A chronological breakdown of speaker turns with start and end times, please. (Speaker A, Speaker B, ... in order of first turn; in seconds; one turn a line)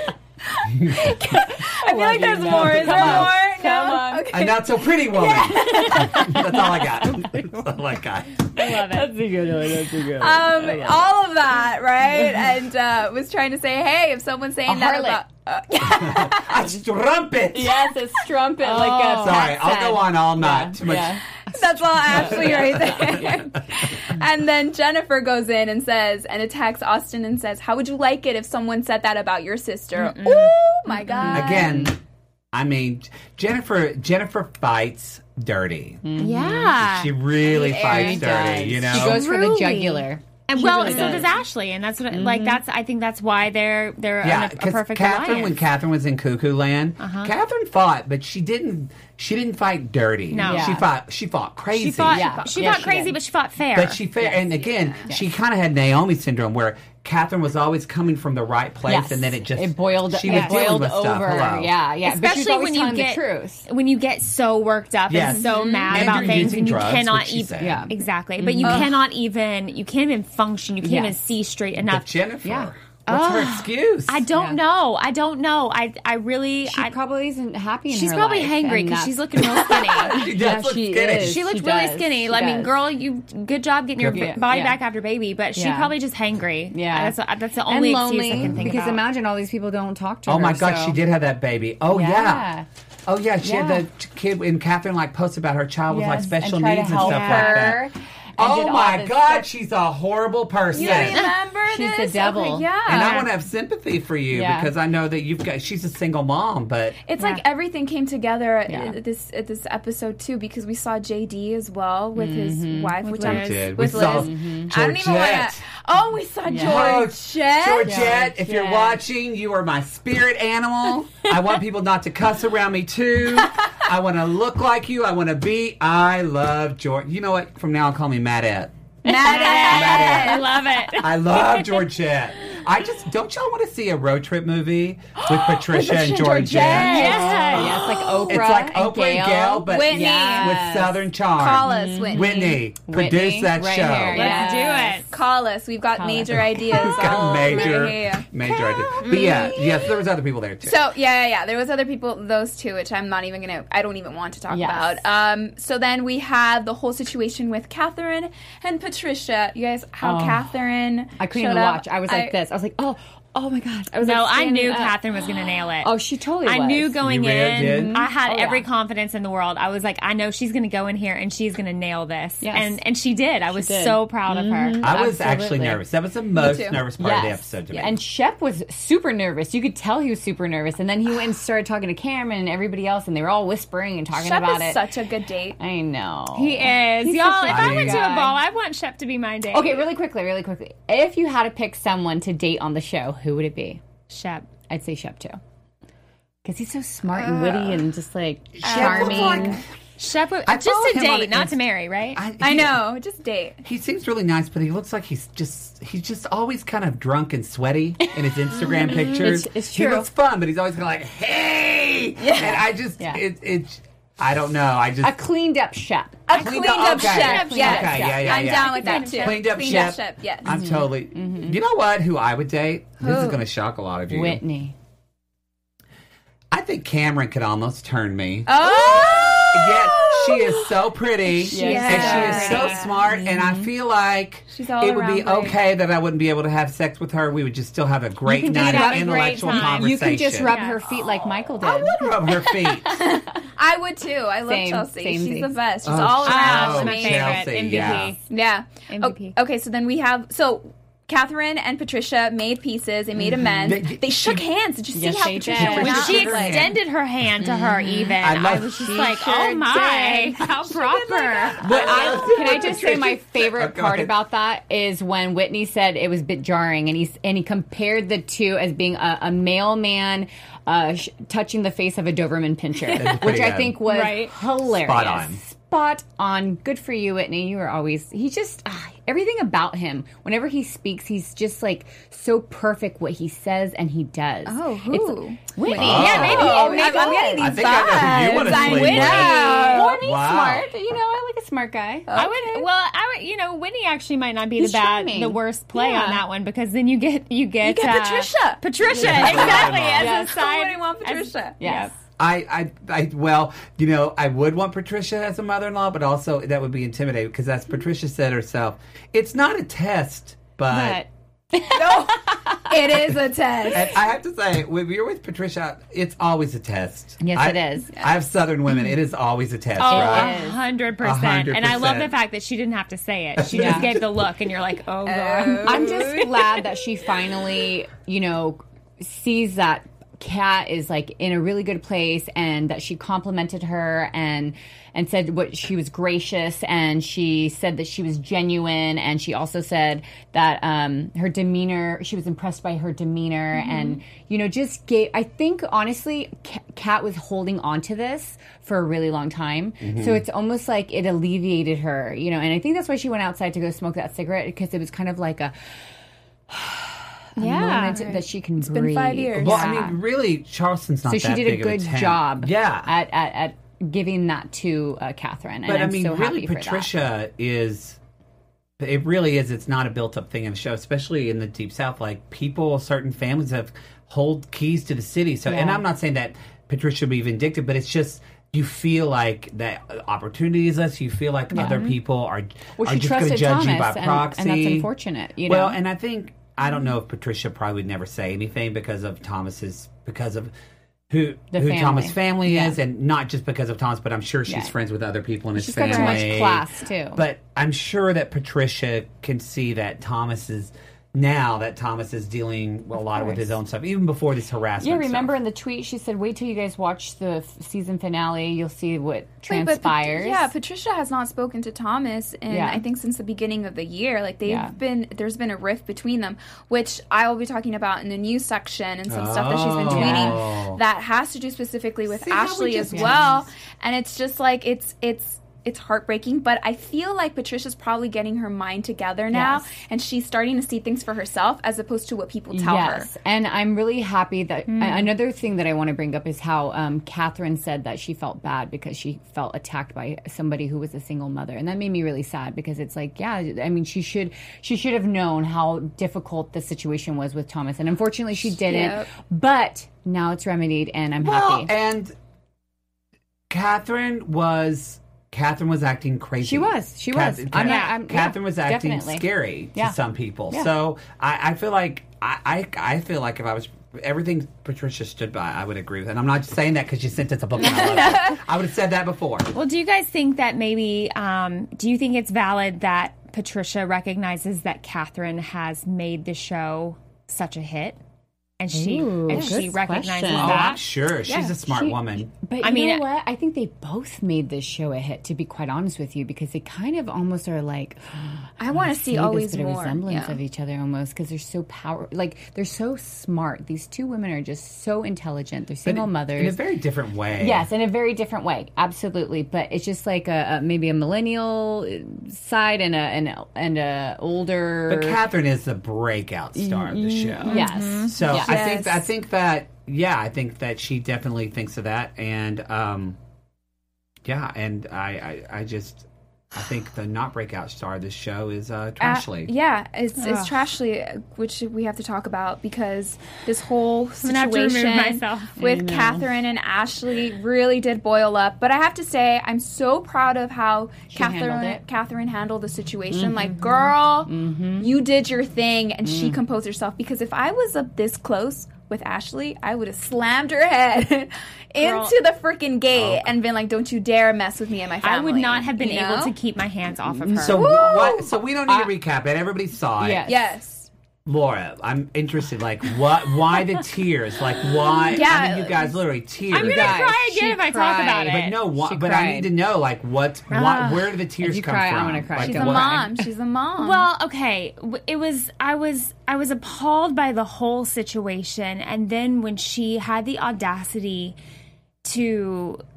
Speaker A: 0.6-6.3
Speaker B: 0.7-1.1
Speaker C: 1.0-4.3
Speaker B: 2.4-3.3
Speaker B: 4.3-8.8
Speaker C: 5.5-7.4
Speaker D: 8.5-9.1
Speaker C: 8.7-11.1
Speaker A: 10.2-16.6
Speaker C: 14.7-15.2
Speaker B: 15.8-17.9
Speaker C: 17.5-21.2
Speaker D: 18.6-19.4
Speaker B: 19.0-21.2
Speaker A: 21.5-31.8
Speaker D: 22.0-22.4
Speaker B: 22.1-23.3
Speaker C: 22.1-23.2
Speaker D: 29.9-30.6
Speaker C: 30.9-31.9
Speaker B: 31.3-32.0
Speaker B: 32.5-36.0
Speaker C: 36.0-36.8
Speaker D: 36.2-37.1
Speaker B: 36.8-39.2
Speaker A: 37.4-38.4
Speaker C: 37.6-41.3
Speaker D: 38.9-45.6
Speaker A: 40.9-41.2
Speaker C: 42.1-42.6
Speaker B: 44.2-52.3
Speaker D: 47.0-47.3
Speaker D: 50.3-50.8
Speaker C: 50.4-50.9
Speaker D: 51.7-54.0
Speaker C: 52.1-53.2
Speaker B: 53.7-61.7
Speaker A: 54.6-55.1
Speaker C: 58.9-63.7
Speaker D: 60.2-60.6
Speaker D: 62.0-72.1
Speaker B: 65.1-67.8
Speaker A: 65.3-66.2
Speaker C: 67.6-68.9
Speaker A: 68.6-68.9
Speaker C: 70.8-71.2
Speaker B: 71.8-74.2
Speaker C: 72.4-72.7
Speaker D: 73.1-77.0
Speaker C: 74.3-74.6
Speaker C: 76.6-79.5
Speaker D: 77.9-80.3
Speaker B: 79.7-81.4
Speaker C: 80.0-82.7
Speaker D: 81.1-89.0
Speaker B: 84.0-84.3
Speaker C: 84.1-84.8
Speaker C: 85.5-85.9
Speaker C: 86.7-87.2
Speaker C: 87.7-91.0
Speaker B: 88.3-88.7
Speaker B: 90.3-92.5
Speaker C: 91.9-92.7
Speaker B: 93.0-101.2
Speaker C: 93.4-93.8
Speaker C: 95.9-99.5
Speaker D: 96.9-97.7
Speaker A: 100.7-103.2
Speaker D: 100.9-101.3
Speaker C: 101.7-102.7
Speaker B: 102.8-107.0
Speaker D: 102.9-103.3
Speaker C: 104.3-104.7
Speaker A: 107.0-118.2
Speaker D: 107.2-107.4
Speaker C: 108.7-109.0
Speaker C: 112.1-113.1
Speaker D: 113.0-113.9
Speaker B: 113.2-115.6
Speaker C: 113.8-114.7
Speaker C: 116.5-117.0
Speaker B: 116.5-128.7
Speaker C: 117.8-119.0
Speaker A: 129.0-130.4
Speaker C: 129.1-129.6
Speaker D: 129.2-131.9
Speaker B: 129.3-130.4
Speaker B: 131.0-137.2
Speaker A: 135.3-137.8
Speaker C: 136.1-141.0
Speaker D: 136.5-138.3
Speaker B: 138.3-144.4
Speaker A: 139.7-140.6
Speaker A: 141.3-142.6
Speaker C: 141.6-145.1
Speaker D: 144.1-145.1
Speaker A: 144.2-149.8
Speaker C: 145.9-147.8
Speaker B: 146.6-150.8
Speaker C: 148.6-149.7
Speaker A: 150.6-162.3
Speaker C: 154.5-155.0
Speaker C: 160.0-160.5
Speaker C: 161.2-165.0
Speaker D: 164.0-174.9
Speaker C: 165.8-167.0
Speaker B: 167.0-168.0
Speaker C: 167.6-168.7
Speaker C: 172.4-172.8
Speaker C: 173.5-175.8
Speaker B: 174.8-178.0
Speaker A: 176.3-176.8
Speaker C: 177.0-184.8
Speaker A: 184.1-185.6
Speaker C: 185.6-188.4
Speaker D: 186.3-189.9
Speaker B: 187.5-188.1
Speaker C: 189.5-193.8
Speaker D: 194.1-194.5
Speaker C: 194.7-195.4
Speaker C: 196.4-199.6
Speaker A: 197.1-197.8
Speaker B: 198.5-199.6
Speaker A: 198.6-199.6
Speaker D: 200.0-202.2
Speaker B: 200.4-201.6
Speaker B: 202.1-202.9
Speaker A: 202.4-203.6
Speaker B: 203.6-215.2
Speaker C: 208.0-210.1
Speaker A: 212.2-212.6
Speaker C: 215.0-216.3
Speaker A: 216.3-220.6
Speaker D: 216.3-219.9
Speaker B: 216.3-224.4
Speaker C: 217.1-218.4
Speaker C: 220.4-221.6
Speaker A: 223.0-223.4
Speaker C: 224.1-224.7
Speaker B: 226.5-240.5
Speaker A: 228.4-230.7
Speaker A: 231.5-232.9
Speaker C: 231.5-233.7
Speaker D: 231.5-232.9
Speaker A: 234.5-235.6
Speaker C: 238.2-243.2
Speaker D: 238.4-240.8
Speaker B: 241.6-243.0
Speaker A: 242.9-247.7
Speaker C: 244.4-245.6
Speaker B: 245.8-248.1
Speaker D: 246.2-248.2
Speaker A: 248.3-256.6
Speaker D: 248.9-249.3
Speaker C: 253.2-253.8
Speaker B: 253.6-254.4
Speaker C: 254.9-256.2
Speaker B: 255.3-256.8
Speaker D: 255.6-261.6
Speaker C: 257.4-260.5
Speaker B: 258.2-259.0
Speaker A: 260.7-262.8
Speaker B: 261.6-264.1
Speaker C: 261.6-292.1
Speaker B: 272.9-273.8
Speaker D: 273.8-274.3
Speaker B: 274.6-275.4
Speaker A: 284.4-290.1
Speaker B: 285.7-290.7
Speaker D: 285.8-287.1
Speaker D: 288.5-289.8
Speaker A: 292.1-292.7
Speaker D: 292.1-301.9
Speaker C: 294.6-296.2
Speaker A: 297.6-301.6
Speaker B: 298.9-300.1
Speaker C: 299.9-300.4
Speaker C: 301.6-301.9
Speaker B: 302.2-311.0
Speaker C: 310.7-312.7
Speaker A: 311.6-313.9
Speaker B: 313.6-320.4
Speaker C: 317.2-317.9
Speaker D: 319.8-326.3
Speaker C: 319.8-320.6
Speaker B: 321.0-322.1
Speaker B: 323.4-324.0
Speaker C: 323.5-323.9
Speaker A: 325.0-326.7
Speaker C: 325.6-355.5
Speaker B: 349.8-350.2
Speaker C: 356.5-359.9
Speaker D: 357.4-358.0
Speaker A: 357.5-359.9
Speaker B: 359.3-362.9
Speaker C: 361.1-366.9
Speaker B: 365.6-368.0
Speaker B: 368.8-384.9
Speaker C: 375.4-375.8
Speaker C: 381.5-382.0
Speaker C: 382.8-385.8
Speaker B: 385.4-390.5
Speaker B: 391.1-405.3
Speaker C: 391.5-392.8
Speaker C: 394.5-394.7
Speaker C: 395.5-397.2
Speaker A: 395.9-396.2
Speaker C: 403.2-403.5
Speaker C: 404.8-410.5
Speaker A: 409.5-433.1
Speaker C: 412.5-412.8
Speaker C: 414.4-414.7
Speaker B: 419.1-420.8
Speaker C: 419.9-420.4
Speaker C: 422.2-423.4
Speaker C: 429.3-429.7
Speaker C: 432.5-451.7
Speaker D: 434.7-435.1
Speaker A: 448.6-449.1
Speaker B: 451.2-452.1
Speaker B: 453.5-469.5
Speaker C: 456.4-459.9
Speaker D: 457.6-458.0
Speaker A: 467.6-468.4
Speaker D: 469.5-478.0
Speaker D: 478.6-480.8
Speaker C: 478.7-480.8
Speaker A: 479.3-479.6
Speaker B: 480.3-482.3
Speaker A: 481.2-481.6
Speaker C: 481.7-496.6
Speaker D: 482.6-483.0
Speaker A: 488.6-490.4
Speaker B: 495.8-497.7
Speaker C: 497.4-505.2
Speaker B: 504.9-513.2
Speaker C: 506.6-508.6
Speaker D: 507.5-508.1
Speaker A: 508.2-509.1
Speaker B: 514.2-519.5
Speaker A: 519.0-546.3
Speaker D: 520.2-520.7
Speaker D: 524.2-525.6
Speaker C: 525.6-526.3
Speaker C: 531.1-531.8
Speaker C: 533.1-535.0
Speaker C: 536.0-536.4
Speaker D: 541.8-542.1
Speaker B: 542.9-543.4
Speaker D: 545.0-547.6
Speaker C: 547.1-547.7
Speaker B: 547.4-550.2
Speaker A: 547.5-548.3
Speaker C: 548.7-548.9
Speaker C: 550.0-550.5
Speaker A: 550.2-550.9
Speaker B: 551.2-557.0
Speaker A: 555.0-556.0
Speaker D: 556.5-558.6
Speaker C: 556.5-559.5
Speaker B: 558.3-563.0
Speaker C: 560.5-563.2
Speaker A: 562.4-564.0
Speaker D: 563.8-571.4
Speaker D: 572.0-572.8